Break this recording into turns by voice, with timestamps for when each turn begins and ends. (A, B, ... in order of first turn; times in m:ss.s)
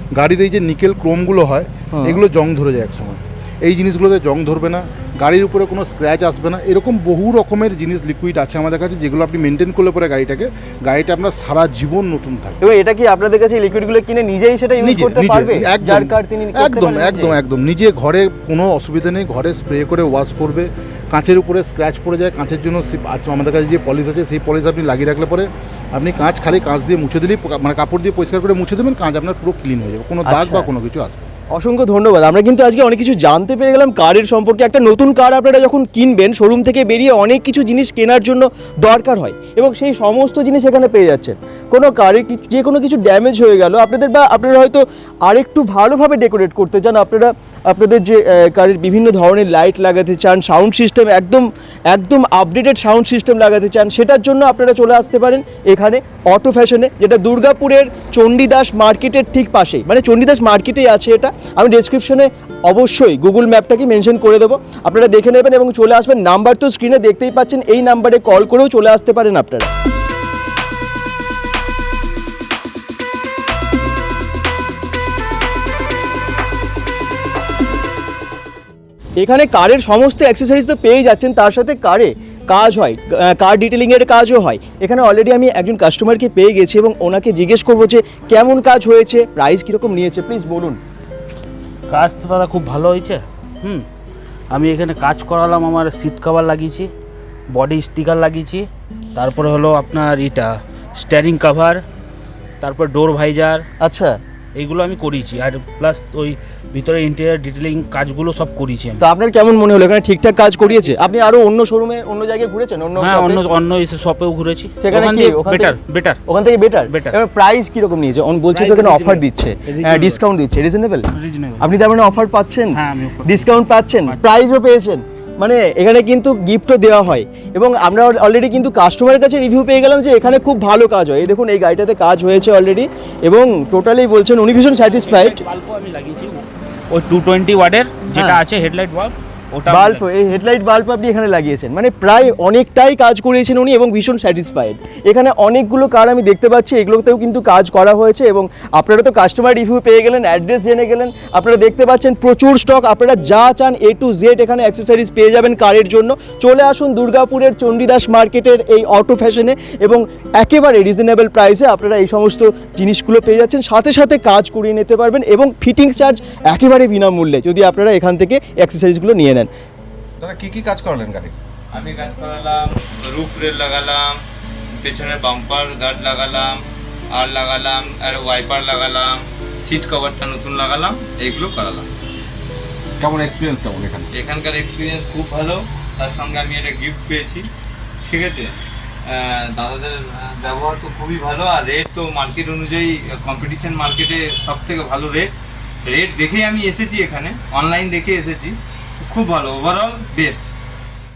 0:00.2-0:12.6 A
0:01.9-0:02.2 B
0:12.6-0:17.4 B
0:14.8-0:31.3 A
0:30.2-0:30.7 B
0:31.5-1:09.7 B
1:19.2-1:30.8 B
1:31.9-1:33.8 C
1:34.5-1:36.9 C
1:37.5-1:41.8 C
1:42.6-1:43.6 C
1:43.8-1:44.2 B
1:44.6-1:49.0 C
1:49.0-1:53.4 B
1:53.0-1:56.2 C
1:54.8-2:01.1 B
1:56.9-1:57.1 C
1:58.5-2:00.2 C
2:01.1-2:01.7 C
2:01.6-2:15.4 B
2:02.7-2:04.2 C
2:14.8-2:20.0 C
2:18.1-2:18.4 B
2:19.7-2:49.5 B
2:50.2-2:50.5 D
2:50.5-2:51.3 E
2:51.7-2:54.2 D
2:54.8-2:56.6 D
2:57.1-3:01.9 D
3:03.0-3:04.2 E
3:04.1-3:07.5 D
3:08.0-3:08.5 D
3:09.1-3:15.3 D
3:15.9-3:18.6 D
3:19.1-3:20.5 D